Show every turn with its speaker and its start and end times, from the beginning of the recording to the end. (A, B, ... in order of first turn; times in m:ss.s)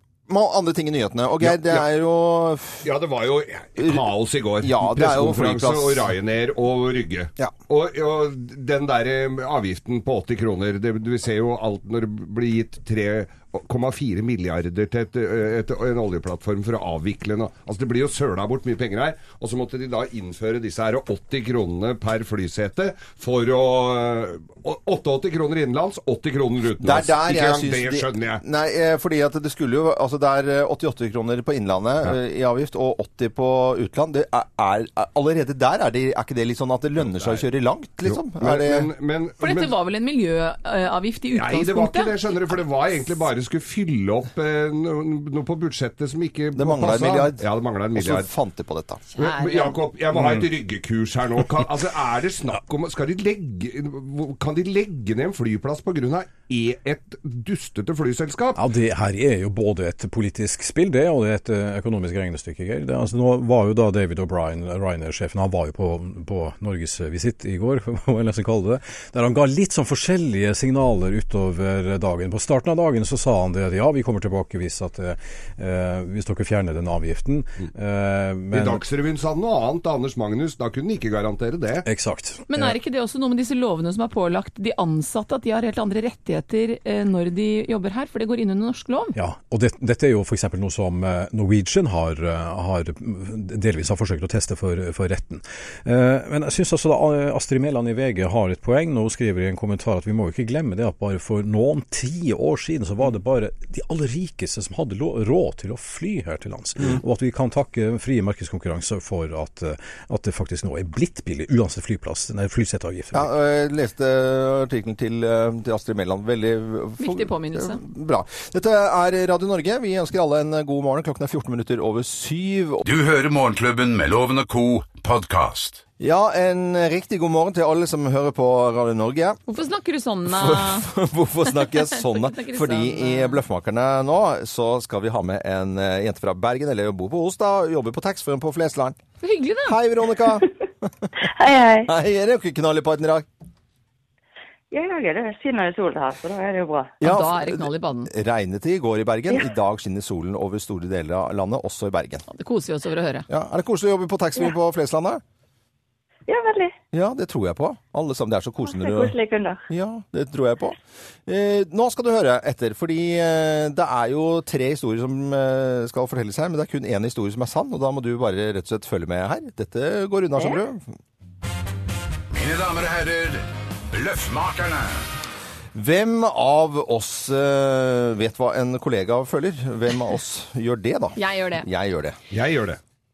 0:00.3-0:02.9 A
0:01.4-0:01.9 B
0:02.8-0:28.4 B
0:03.8-0:04.1 A
0:04.6-0:06.1 A
0:26.8-0:38.9 A
0:37.0-0:37.4 B
0:38.0-0:39.7 B
0:39.4-0:42.2 C
0:41.3-0:48.3 B
0:46.5-0:49.0 A
0:49.2-0:58.6 B
0:49.2-0:49.8 C
0:58.5-1:18.8 D
1:18.5-1:21.8 B
1:21.8-1:22.8 D
1:22.5-1:29.1 C
1:29.1-1:53.3 D
1:53.1-2:02.8 A
1:57.0-1:57.8 C
2:02.8-2:05.8 E
2:06.0-2:09.4 A
2:09.5-2:10.9 C
2:10.2-2:19.0 A
2:11.5-2:13.4 C
2:19.2-2:19.8 C
2:19.6-2:20.5 A
2:21.2-2:21.9 F
2:21.8-2:23.3 A
2:24.7-2:27.0 F
2:27.0-2:32.2 A
2:27.0-2:28.1 C
2:32.3-2:33.3 C
2:33.3-2:35.2 A
2:36.3-2:36.7 F
2:36.9-2:39.1 A
2:38.6-2:39.6 F
2:39.7-2:50.9 A
2:52.3-2:55.0 E
2:55.7-3:02.2 A
3:01.2-3:01.7 C
3:02.3-3:02.8 B